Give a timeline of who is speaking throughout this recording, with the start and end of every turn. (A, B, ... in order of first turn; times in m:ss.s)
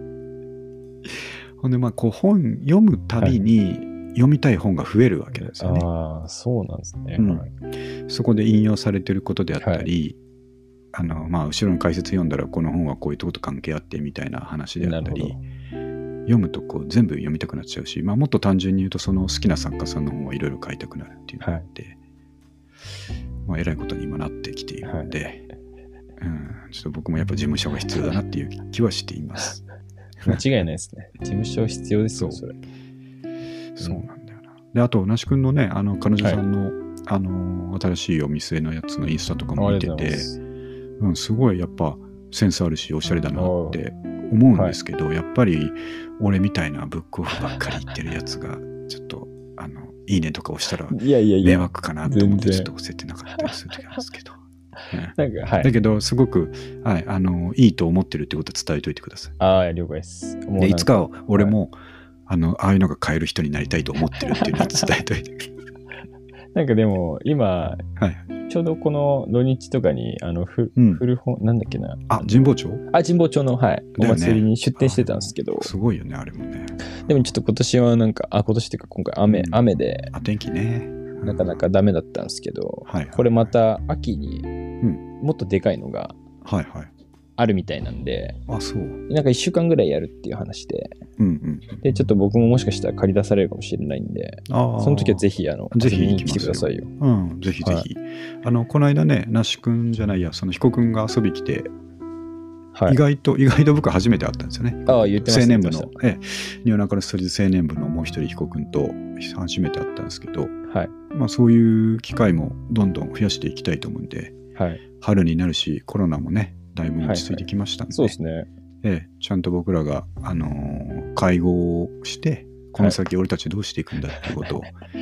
0:01.0-0:05.9 A
0:05.4-0:07.5 B
0:07.2-0:07.5 A
0:08.1-0:10.2 A
0:09.6-0:09.9 B
0:10.9-0:15.4 A
0:14.8-0:15.4 B
0:16.3-0:22.0 A
0:21.4-0:21.7 B
0:23.5-0:25.5 A
0:24.8-0:25.1 B
0:26.2-0:29.6 A
0:30.2-0:32.6 B
0:32.2-0:32.4 A
0:33.8-0:40.3 A
0:33.8-0:34.1 B
0:39.6-0:40.4 B
0:41.0-0:59.4 A
0:43.4-0:43.8 B
0:50.9-0:52.7 B
0:55.2-0:55.7 B
0:59.4-1:01.6 B
1:00.6-1:01.8 A
1:02.3-1:05.5 A
1:04.3-1:04.8 B
1:06.6-1:07.9 B
1:08.0-1:08.3 A
1:08.5-1:15.7 B
1:10.8-1:11.0 A
1:12.1-1:12.8 A
1:14.0-1:16.8 A
1:16.9-1:20.1 B
1:19.3-1:19.6 A
1:20.1-1:21.6 A
1:21.2-1:24.5 B
1:22.9-1:23.5 A
1:25.1-1:26.2 B
1:26.4-1:26.9 A
1:27.4-1:28.4 B
1:28.5-1:29.0 A
1:29.1-1:31.0 B
1:31.2-1:31.8 A
1:31.8-1:36.9 B
1:34.5-1:41.7 A
1:42.7-1:43.0 B
1:42.9-1:50.6 A
1:44.9-1:46.0 B
1:50.7-1:50.9 B
1:51.1-1:54.4 A
1:54.6-1:54.8 B
1:55.0-1:58.2 A
1:57.0-1:58.5 B
1:58.8-2:04.8 A
2:04.2-2:04.5 B